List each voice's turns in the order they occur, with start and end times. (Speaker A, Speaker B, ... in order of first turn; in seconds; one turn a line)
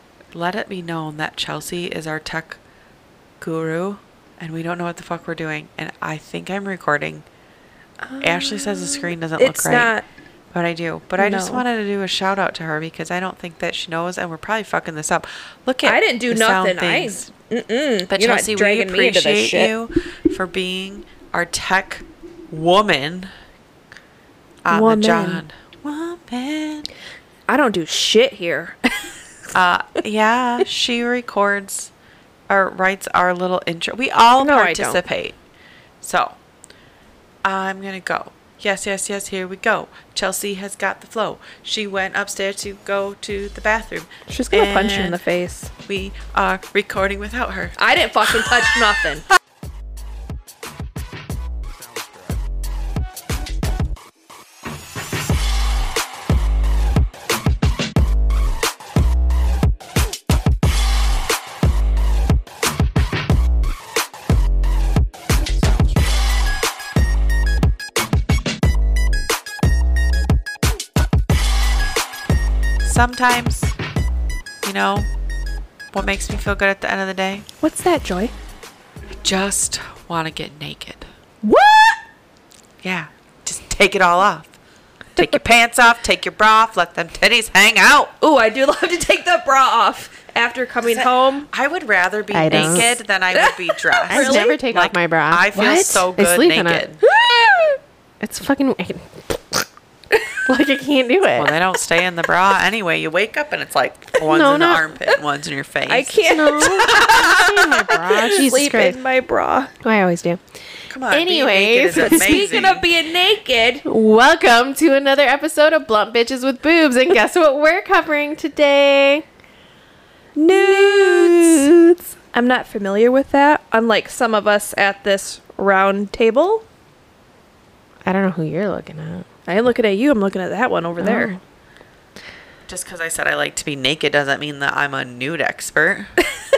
Speaker A: 0.3-2.6
Speaker A: 3.4-7.2
Speaker B: 8.0-10.0
Speaker A: 8.2-9.9
Speaker A: 10.5-17.3
Speaker B: 11.2-11.6
Speaker B: 15.8-19.7
Speaker A: 18.1-23.3
Speaker A: 24.6-26.9
Speaker B: 24.7-25.4
Speaker B: 27.5-28.8
Speaker A: 29.5-31.9
Speaker A: 32.5-35.4
Speaker B: 34.4-35.0
Speaker A: 36.0-36.4
Speaker A: 37.5-45.2
Speaker B: 44.3-45.7
Speaker A: 45.9-47.8
Speaker B: 47.8-49.3
Speaker A: 72.8-73.7
Speaker A: 74.6-75.1
Speaker A: 75.9-77.5
Speaker B: 77.6-78.3
Speaker A: 79.2-81.1
Speaker B: 81.4-82.0
Speaker A: 82.8-84.5
Speaker A: 85.2-88.1
Speaker B: 88.2-91.5
Speaker A: 90.9-97.0
Speaker C: 92.3-93.0
Speaker B: 92.5-92.8
Speaker B: 93.3-94.5
Speaker C: 94.1-97.3
Speaker B: 97.1-97.7
Speaker C: 98.2-99.7
Speaker C: 100.5-101.5
Speaker A: 101.4-107.6
Speaker C: 104.2-104.9
Speaker B: 105.9-109.7
Speaker C: 106.2-109.0
Speaker C: 109.8-110.4
Speaker A: 110.9-112.9
Speaker C: 111.1-112.6
Speaker B: 111.9-113.8
Speaker C: 113.8-119.3
Speaker B: 120.4-121.7
Speaker C: 120.5-122.0
Speaker B: 122.3-126.6
Speaker C: 128.0-129.3
Speaker B: 129.5-131.3
Speaker C: 131.0-131.4
Speaker A: 132.7-136.1